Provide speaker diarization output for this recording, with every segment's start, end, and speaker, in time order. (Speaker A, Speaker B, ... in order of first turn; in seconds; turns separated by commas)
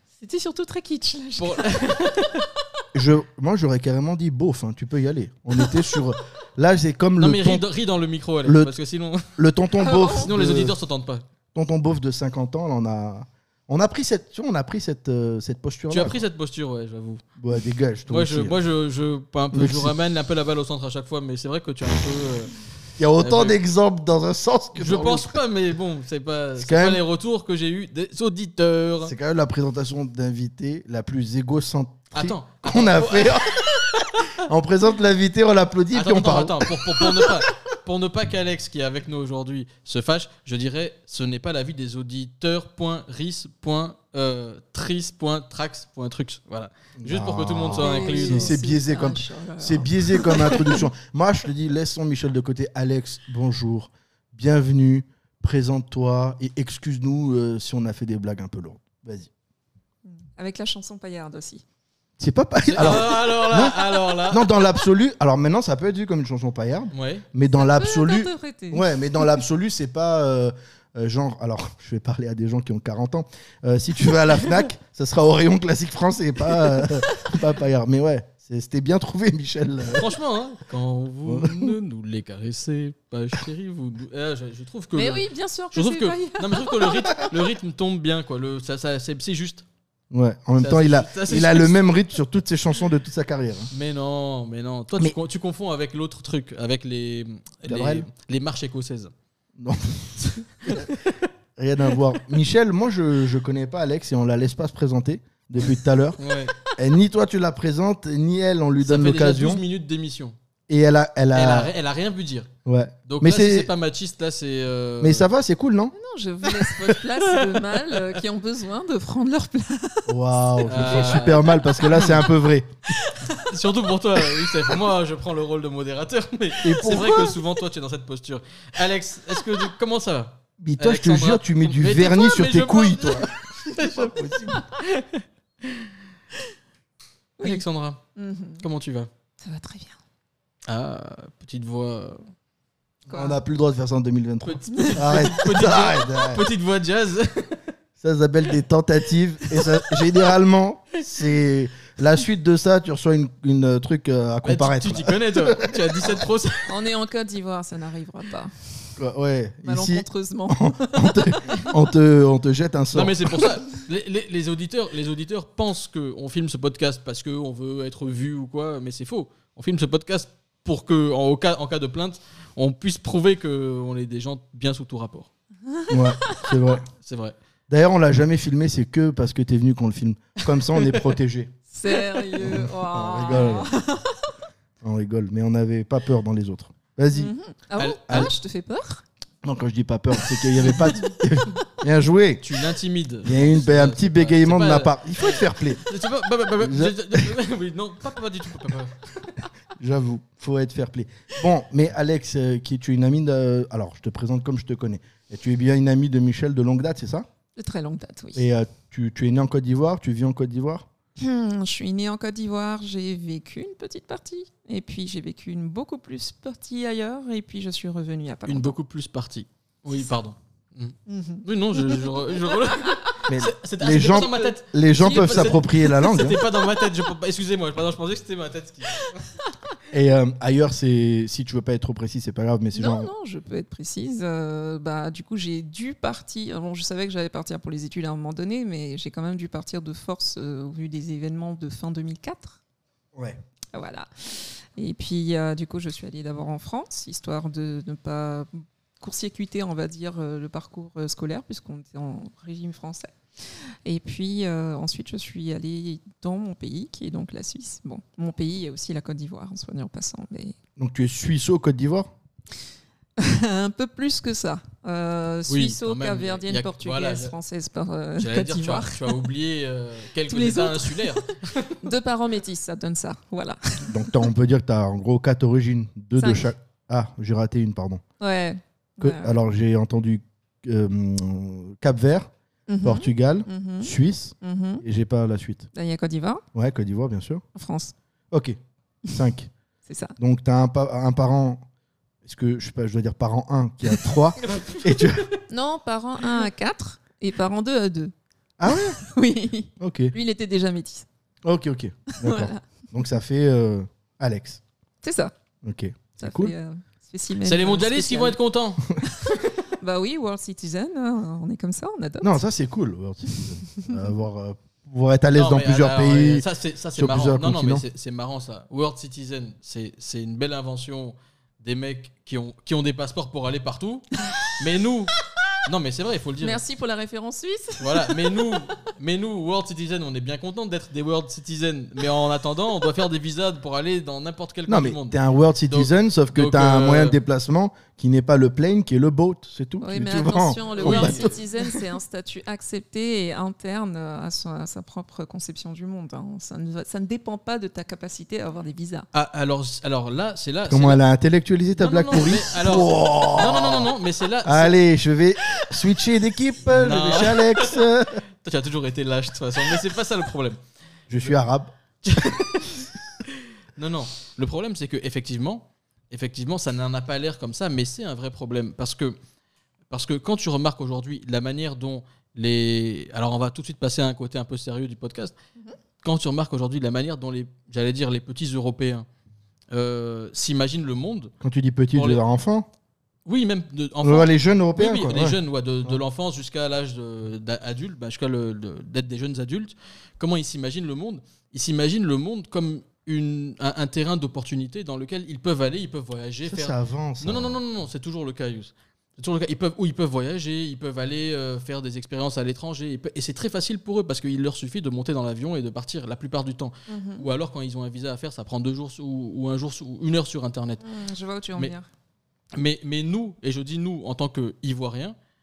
Speaker A: 0.2-1.9, Speaker B: 1.4-2.5, Speaker C: 2.9-7.7, Speaker B: 7.2-9.3, Speaker C: 8.4-8.7, Speaker C: 9.3-10.8, Speaker A: 9.8-10.3, Speaker B: 10.2-11.2, Speaker C: 11.5-16.2, Speaker B: 15.9-17.2, Speaker C: 17.4-18.6, Speaker B: 18.1-22.5, Speaker C: 19.5-19.9, Speaker C: 23.0-25.4, Speaker B: 23.2-23.6, Speaker B: 24.8-29.1, Speaker C: 26.6-27.0, Speaker C: 29.0-33.8, Speaker B: 32.1-33.6, Speaker C: 34.4-37.2, Speaker B: 35.9-48.6, Speaker C: 47.0-59.3, Speaker A: 47.7-50.8, Speaker A: 60.2-61.6, Speaker C: 62.2-80.1, Speaker B: 62.7-64.6, Speaker B: 66.9-67.2, Speaker A: 67.5-69.4, Speaker A: 76.8-77.4, Speaker B: 79.9-89.7, Speaker C: 81.3-81.7, Speaker A: 85.0-87.3, Speaker C: 90.1-93.7, Speaker B: 90.6-91.8, Speaker B: 93.7-99.1, Speaker C: 97.7-98.1, Speaker C: 99.6-100.9, Speaker B: 100.7-100.9, Speaker C: 101.6-106.2, Speaker B: 105.6-106.6, Speaker C: 106.7-109.6, Speaker B: 108.8-110.4, Speaker C: 110.7-111.7, Speaker B: 111.3-112.5, Speaker C: 112.7-113.7, Speaker B: 113.1-115.3, Speaker C: 115.0-116.0, Speaker A: 116.0-122.2, Speaker C: 120.1-122.7, Speaker B: 120.6-122.2, Speaker A: 123.0-123.4, Speaker B: 123.4-135.9, Speaker C: 126.6-127.3, Speaker A: 126.8-127.3, Speaker C: 130.6-133.3, Speaker C: 133.8-134.6, Speaker B: 137.4-138.0, Speaker A: 138.2-138.6, Speaker B: 138.6-139.1, Speaker A: 139.4-140.0, Speaker B: 140.7-142.2, Speaker C: 143.1-146.4, Speaker A: 143.1-143.4, Speaker B: 144.5-147.6, Speaker C: 148.0-156.2, Speaker B: 154.4-156.7, Speaker A: 156.7-158.9, Speaker C: 159.0-163.4, Speaker A: 159.7-161.7, Speaker B: 162.9-175.3, Speaker A: 175.7-176.6, Speaker C: 175.9-176.8, Speaker B: 177.0-177.3, Speaker C: 177.7-181.5, Speaker A: 181.7-184.3, Speaker C: 182.4-183.7, Speaker C: 184.8-187.3, Speaker A: 187.1-189.0, Speaker B: 187.8-188.3, Speaker C: 189.4-192.4, Speaker B: 192.4-199.0, Speaker C: 193.2-195.8, Speaker C: 196.6-197.3, Speaker C: 199.8-207.3, Speaker A: 207.6-208.4, Speaker C: 208.3-210.9, Speaker A: 211.2-218.8, Speaker B: 218.5-229.2, Speaker A: 221.1-223.2, Speaker C: 223.3-226.4, Speaker A: 223.9-226.8, Speaker C: 229.9-233.1, Speaker A: 232.8-242.6, Speaker C: 243.2-243.4, Speaker A: 243.7-260.6, Speaker C: 260.8-262.1, Speaker A: 263.2-269.2, Speaker B: 265.5-267.3, Speaker B: 268.2-271.8, Speaker A: 270.3-271.3, Speaker A: 271.8-274.2, Speaker C: 273.9-278.0, Speaker A: 276.2-276.5, Speaker A: 278.2-279.4, Speaker C: 279.0-282.3, Speaker A: 282.7-284.8, Speaker C: 282.8-285.7, Speaker A: 285.8-286.4, Speaker C: 286.5-287.4, Speaker A: 287.6-287.9, Speaker C: 288.3-289.5, Speaker A: 289.9-290.1, Speaker C: 290.2-291.6, Speaker C: 292.2-295.3, Speaker A: 295.5-298.1, Speaker C: 298.6-299.0, Speaker A: 298.7-301.1, Speaker C: 299.8-300.1, Speaker C: 301.4-304.6, Speaker A: 302.1-302.6, Speaker A: 305.0-305.3, Speaker C: 305.6-306.5, Speaker A: 306.2-308.4, Speaker B: 307.4-308.9, Speaker A: 309.0-312.4, Speaker C: 312.2-317.8, Speaker B: 315.3-325.1, Speaker B: 325.6-326.6, Speaker A: 326.4-328.5, Speaker B: 327.8-337.2, Speaker C: 334.7-341.3, Speaker A: 339.8-349.1, Speaker B: 340.8-341.3, Speaker B: 349.1-351.0, Speaker C: 350.7-353.9, Speaker B: 351.8-354.8, Speaker C: 354.4-358.2, Speaker B: 356.7-357.8, Speaker B: 358.4-360.6, Speaker C: 361.1-362.4, Speaker B: 362.0-369.2, Speaker B: 369.9-375.4, Speaker B: 376.0-379.1, Speaker B: 379.7-381.3, Speaker C: 381.4-382.7, Speaker B: 381.9-382.2, Speaker B: 383.3-410.8, Speaker C: 384.0-386.0, Speaker C: 396.4-397.6, Speaker A: 406.9-407.3, Speaker A: 410.8-411.9, Speaker B: 412.6-415.2